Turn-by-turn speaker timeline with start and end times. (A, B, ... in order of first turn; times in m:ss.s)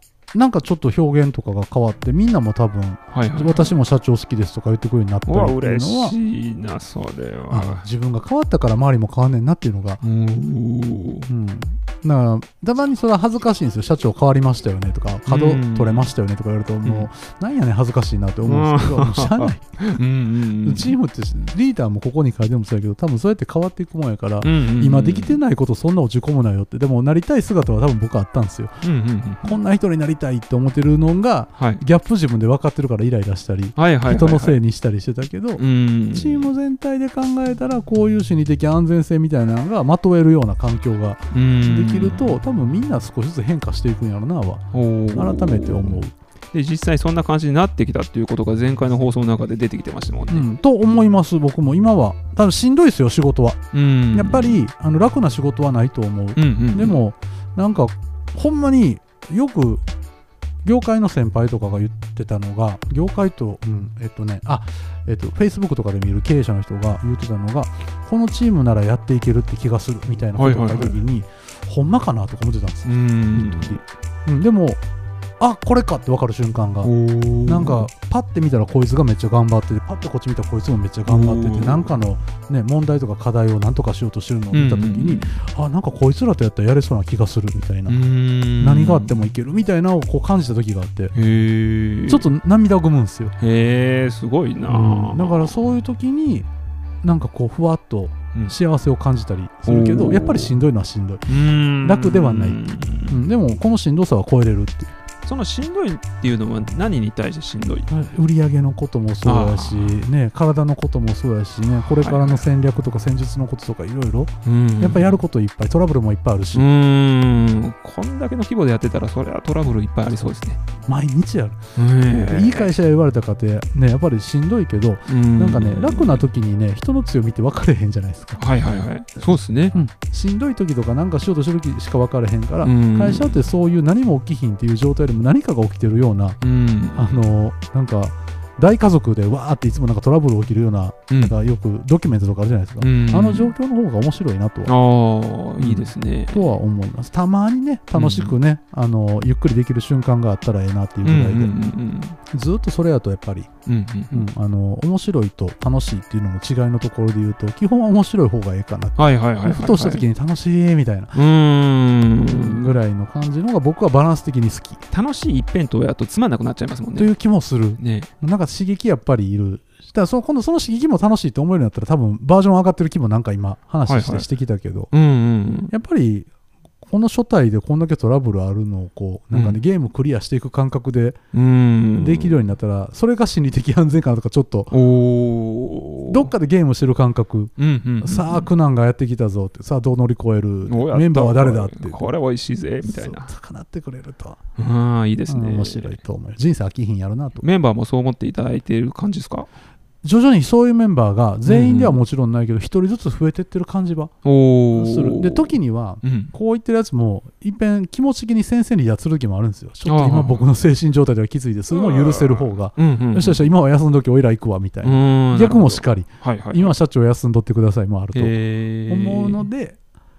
0:00.3-0:06.2 A
0:03.1-0:03.7 B
0:05.2-0:07.9 B
0:07.5-0:10.0 A
0:10.0-0:11.3 B
0:11.3-0:28.8 A
0:15.3-0:16.1 B
0:18.5-0:21.0 B
0:24.4-0:25.4 B
0:28.8-0:29.6 B
0:29.4-0:46.1 A
0:33.8-0:34.6 B
0:35.6-0:36.5 B
0:41.3-0:42.4 B
0:44.7-0:46.0 B
0:46.5-0:50.5 B
0:50.3-0:59.8 A
0:53.7-0:54.6 B
0:56.4-0:57.0 B
1:00.6-1:14.8 A
1:10.4-1:11.0 B
1:12.9-1:13.8 B
1:15.4-1:16.9 A
1:16.8-1:17.9 B
1:17.4-1:28.0 A
1:21.0-1:21.9 B
1:24.5-1:25.4 B
1:27.9-1:29.2 B
1:28.6-1:31.1 A
1:31.1-1:32.3 B
1:32.1-1:33.3 A
1:33.4-1:35.5 B
1:34.6-1:36.5 A
1:37.0-1:44.9 A
1:39.6-1:40.5 B
1:41.3-1:43.2 B
1:45.2-1:47.9 B
1:47.9-1:56.7 A
1:49.2-1:50.0 B
1:51.7-1:52.5 B
1:54.4-1:55.2 B
1:56.5-2:00.6 B
2:00.9-2:08.5 A
2:01.8-2:02.7 B
2:05.1-2:06.2 B
2:08.4-2:09.8 B
2:09.2-2:16.4 A
2:12.6-2:13.4 B
2:16.4-2:17.3 B
2:16.9-2:24.7 A
2:21.1-2:21.3 B
2:22.8-2:23.5 B
2:24.6-2:26.6 B
2:25.6-2:31.5 A
2:27.9-2:28.4 B
2:31.0-2:32.2 B
2:32.3-2:33.5 A
2:33.6-2:34.3 B
2:34.1-2:41.2 A
2:39.0-2:40.0 B
2:41.1-2:42.8 B
2:42.2-2:44.8 A
2:44.9-2:47.1 B
2:47.0-2:54.9 A
2:47.8-2:48.1 B
2:53.9-2:54.3 B
2:54.9-2:55.7 B
2:55.7-2:56.3 A
2:56.9-3:01.2 A
2:59.3-2:59.6 B
3:01.3-3:02.4 B
3:02.0-3:04.7 A
3:04.7-3:06.3 B
3:06.1-3:12.1 A
3:07.6-3:08.5 B
3:10.6-3:13.3 B
3:12.8-3:14.4 A
3:14.6-3:16.0 B
3:15.3-3:17.4 A
3:17.4-3:19.5 B
3:20.0-3:24.1 A
3:21.4-3:22.0 B
3:24.2-3:26.3 B
3:24.7-3:38.4 A
3:29.8-3:30.5 B
3:31.7-3:33.5 B
3:34.8-3:36.8 B
3:38.1-3:39.5 B
3:38.9-3:39.8 A